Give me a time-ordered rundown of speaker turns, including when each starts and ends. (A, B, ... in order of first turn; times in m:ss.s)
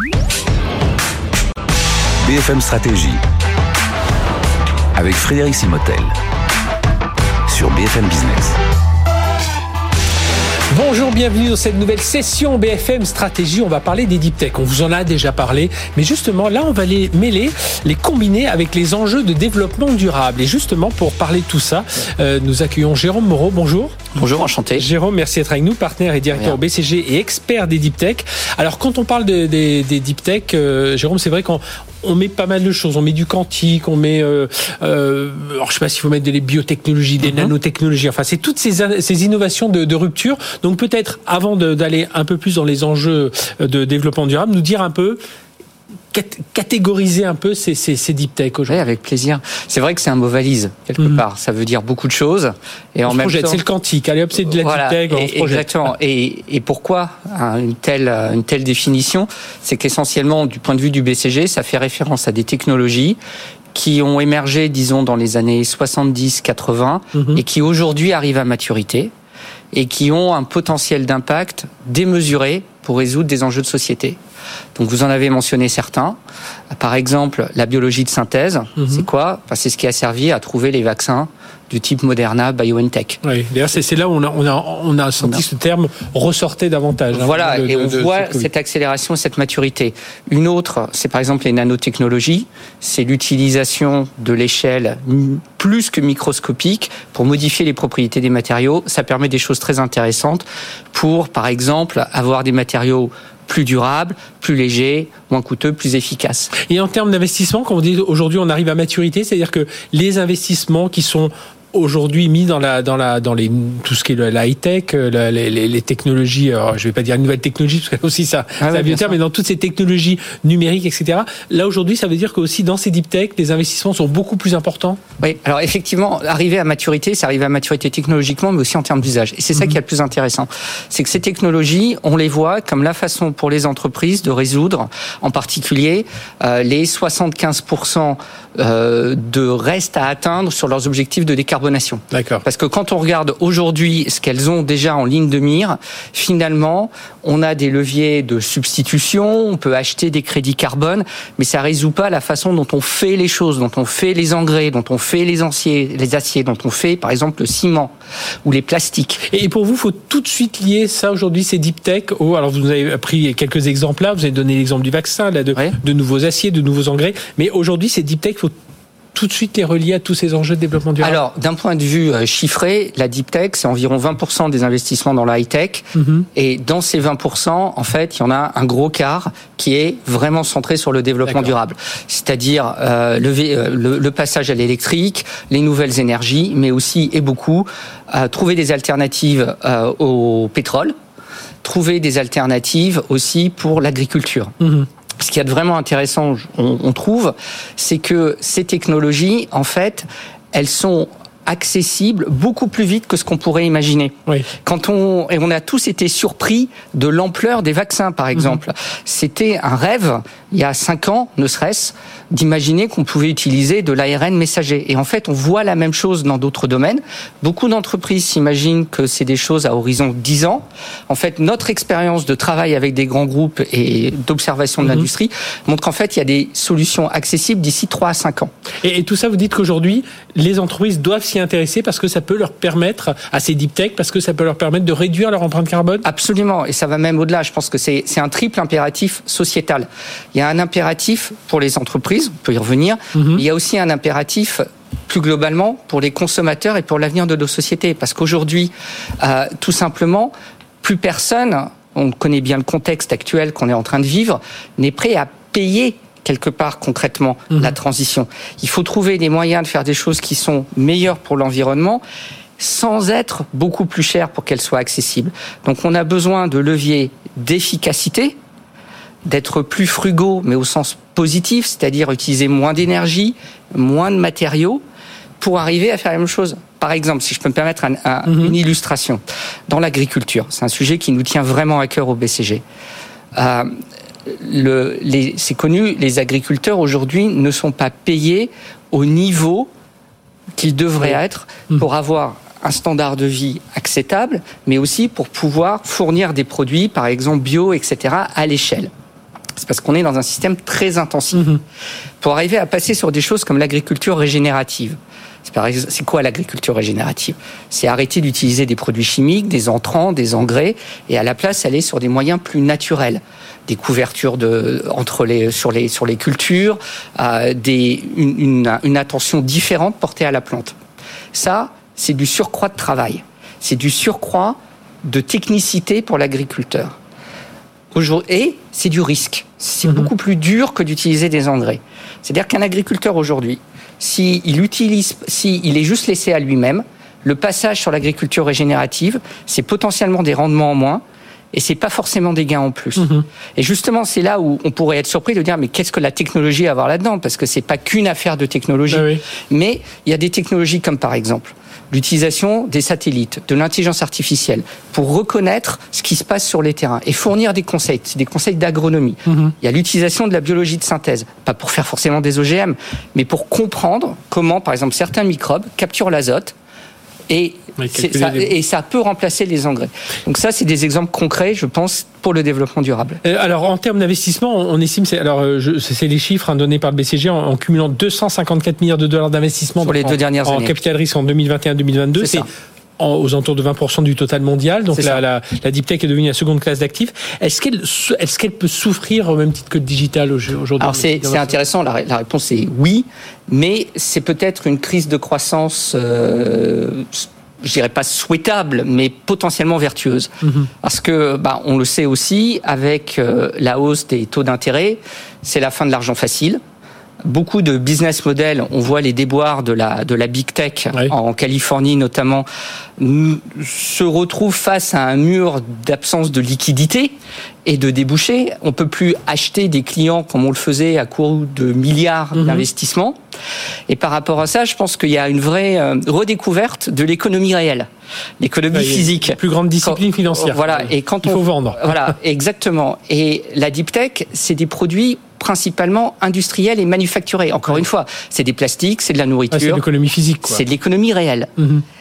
0:02.2-0:03.2 A
0:05.0-0:06.1 A
0:07.5-0:08.6 A
0:10.7-0:24.0 B
0:24.1-0:24.9 C
0:24.8-0:45.2 B
0:26.3-0:26.6 C
0:37.2-0:37.5 C
0:46.1-0:48.8 B
0:48.7-0:53.6 C
0:51.0-0:51.2 B
0:53.1-0:55.6 B
0:54.5-1:03.2 C
1:03.7-1:09.1 C
1:07.2-1:07.4 B
1:09.7-1:14.2 C
1:14.8-1:16.2 C
1:16.7-1:23.2 C
1:18.8-1:19.0 B
1:23.2-1:28.5 B
1:27.1-1:46.5 C
1:46.7-2:05.0 B
1:58.6-1:59.2 C
2:05.2-2:37.9 C
2:22.1-2:22.4 B
2:38.4-2:39.2 C
2:39.3-2:48.5 B
2:49.1-2:51.2 B
2:51.0-3:10.9 C
2:56.0-2:56.3 B
3:11.6-3:14.5 C
3:14.6-3:14.9 B
3:15.2-3:48.5 C
3:48.8-3:56.0 B
3:56.0-4:22.0 C
4:03.2-4:03.4 B
4:22.6-4:28.4 C
4:29.3-4:34.8 C
4:35.4-4:42.6 C
4:38.3-4:38.5 B
4:43.4-4:43.7 C
4:44.3-4:49.7 C
4:50.6-4:58.9 C
4:59.6-5:01.5 C
5:01.3-5:01.6 B
5:02.2-5:20.8 C
5:21.3-5:27.0 C
5:27.9-5:41.0 C
5:41.5-6:06.6 C
5:43.0-5:43.2 B
5:48.9-5:49.2 B
5:59.3-5:59.6 B
6:07.3-6:13.2 C
6:07.8-6:08.5 B
6:13.2-6:22.4 B
6:19.8-6:20.8 C
6:22.2-6:22.5 C
6:23.0-6:31.6 B
6:24.9-6:25.2 C
6:30.8-6:46.6 C
6:47.2-6:52.5 C
6:53.0-6:57.1 C
6:57.6-7:03.2 C
7:02.4-7:02.6 B
7:03.9-7:07.9 C
7:08.4-7:19.8 C
7:08.7-7:12.0 B
7:19.5-7:20.6 B
7:20.4-7:21.5 C
7:21.6-7:21.8 B